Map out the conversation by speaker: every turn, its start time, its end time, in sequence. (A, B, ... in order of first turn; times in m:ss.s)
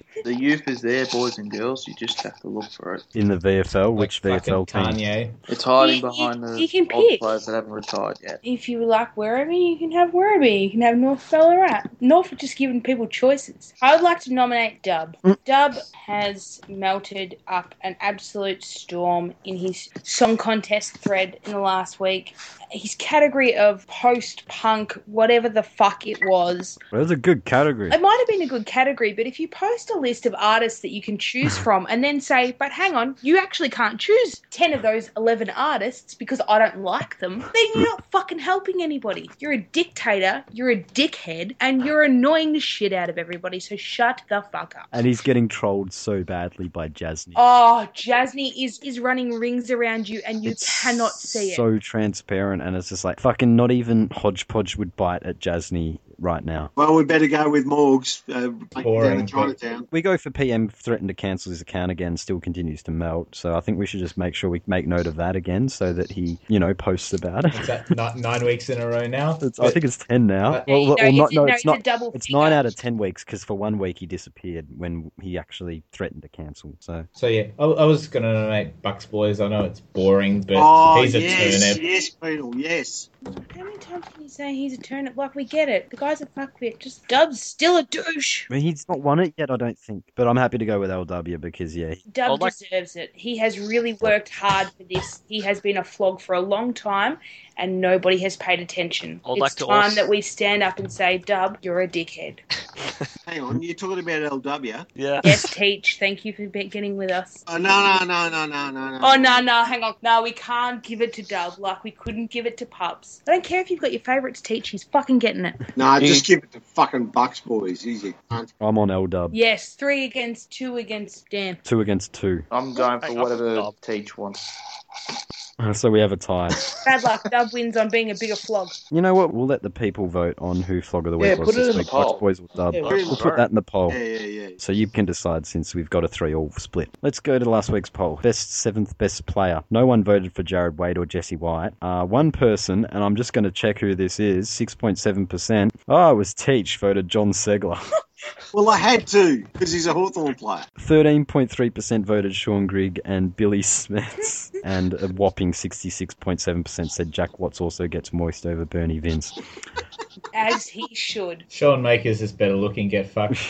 0:00.2-0:03.1 A
0:03.1-0:05.0 B
0:04.0-0:05.4 C
0:05.5-0:08.4 A
0:05.8-0:07.3 D
0:08.4-0:26.8 D
0:26.9-0:28.0 B
0:27.9-0:44.9 D
0:44.9-0:47.4 B
0:47.3-0:51.6 D
0:50.4-0:56.7 B
0:56.8-0:59.9 E
0:58.8-0:59.5 C
0:59.9-1:07.7 B
1:07.5-1:09.8 C
1:09.4-1:17.1 B
1:10.7-1:12.6 D
1:17.1-1:21.8 C
1:20.5-1:23.1 E
1:23.2-1:28.5 D
1:28.5-1:32.0 B
1:32.1-1:42.4 D
1:32.2-1:32.6 F
1:39.2-1:40.0 F
1:43.2-1:44.8 E
1:45.0-1:45.4 F
1:45.2-1:47.4 D
1:47.5-1:49.4 E
1:49.0-1:55.6 D
1:55.8-1:58.5 E
1:56.0-1:56.3 A
1:58.6-1:59.4 B
1:59.3-2:01.6 D
2:01.6-2:02.4 B
2:02.5-2:04.5 A
2:03.0-2:03.7 F
2:05.6-2:06.6 B
2:06.8-2:08.7 D
2:08.9-2:14.0 B
2:11.2-2:13.4 A
2:12.9-2:13.4 F
2:12.9-2:13.3 E
2:13.9-2:14.6 E
2:14.6-2:27.8 B
2:28.5-2:30.7 E
2:30.8-2:39.4 B
2:40.3-2:41.4 D
2:41.5-2:43.4 C